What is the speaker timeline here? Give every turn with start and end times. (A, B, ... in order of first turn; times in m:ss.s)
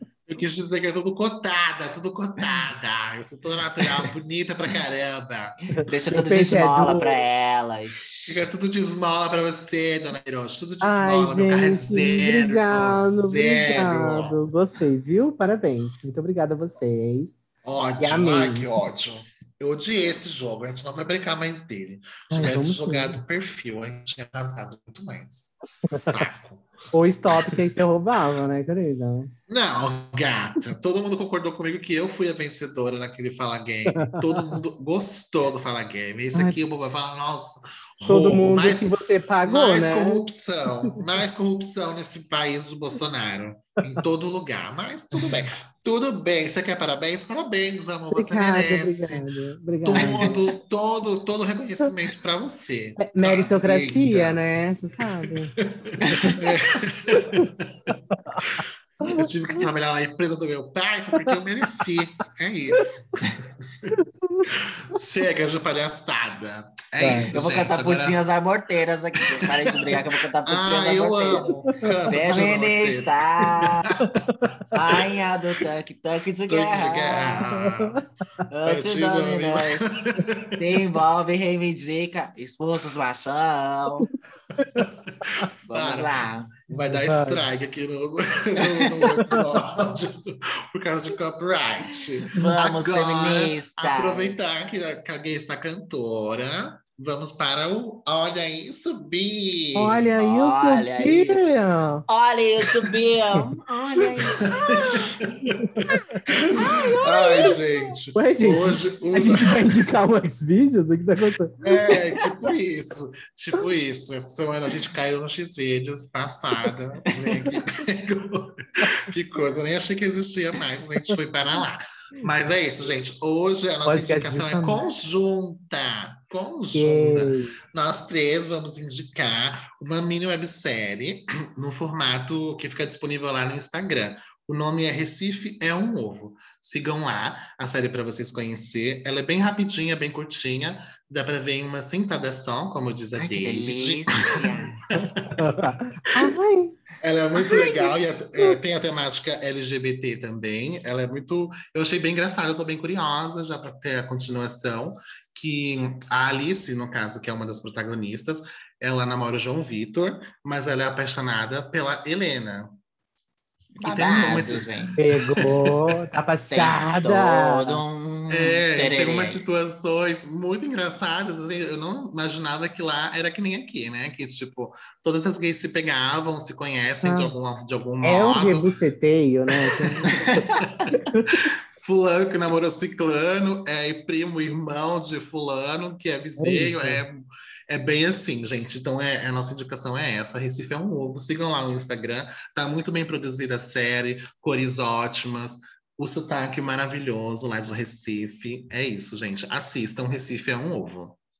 0:00.3-0:05.6 A
0:05.7-0:07.2 B
0:05.8-0:08.4 C
0:08.2-0:14.4 A
0:10.8-0:17.4 B
0:17.6-0:26.7 A
0:18.0-0:18.7 B
0:22.3-0:23.2 B
0:25.9-0:26.2 B
0:26.9-0:29.3 B
0:27.3-0:27.8 A
0:29.5-0:49.2 A
0:33.9-0:34.6 B
0:36.3-0:36.6 B
0:38.1-0:40.3 B
0:45.2-0:45.4 B
0:48.1-0:50.4 B
0:49.8-0:54.4 A
0:49.9-0:50.3 C
0:53.0-0:55.5 B
0:55.0-1:04.0 A
0:56.0-0:56.4 C
0:57.1-0:57.5 B
0:59.0-0:59.7 B
1:03.9-1:04.4 B
1:04.5-1:08.3 A
1:07.0-1:07.3 B
1:07.3-1:11.5 C
1:09.4-1:15.0 A
1:11.7-1:12.2 B
1:12.1-1:13.9 C
1:14.7-1:17.4 C
1:16.5-1:18.0 A
1:17.6-1:18.0 B
1:18.5-1:19.8 C
1:18.6-1:20.8 A
1:20.6-1:24.1 C
1:24.6-1:24.9 B
1:24.6-1:40.2 A
1:25.6-1:26.5 C
1:26.7-1:27.4 B
1:28.8-1:29.2 C
1:29.2-1:29.4 B
1:32.2-1:34.4 C
1:39.7-1:42.0 B
1:40.2-1:41.4 C
1:42.1-1:45.1 C
1:44.3-1:49.8 A
1:45.5-1:46.5 B
1:45.8-1:47.6 C
1:48.1-1:52.0 B
1:51.6-2:26.3 A
2:03.8-2:04.8 B
2:06.7-2:07.5 B
2:23.2-2:24.8 C
2:25.4-2:26.8 B
2:27.0-2:42.8 A
2:27.4-2:27.9 C
2:43.8-2:45.0 C
2:43.8-2:44.7 A
2:45.0-2:47.8 B
2:45.4-2:45.7 A
2:46.5-2:49.4 C
2:48.3-2:58.7 A
2:57.0-2:57.3 B
2:58.0-3:00.4 B
2:59.6-3:21.2 A
3:00.1-3:00.6 C
3:00.9-3:01.5 B
3:06.4-3:07.0 B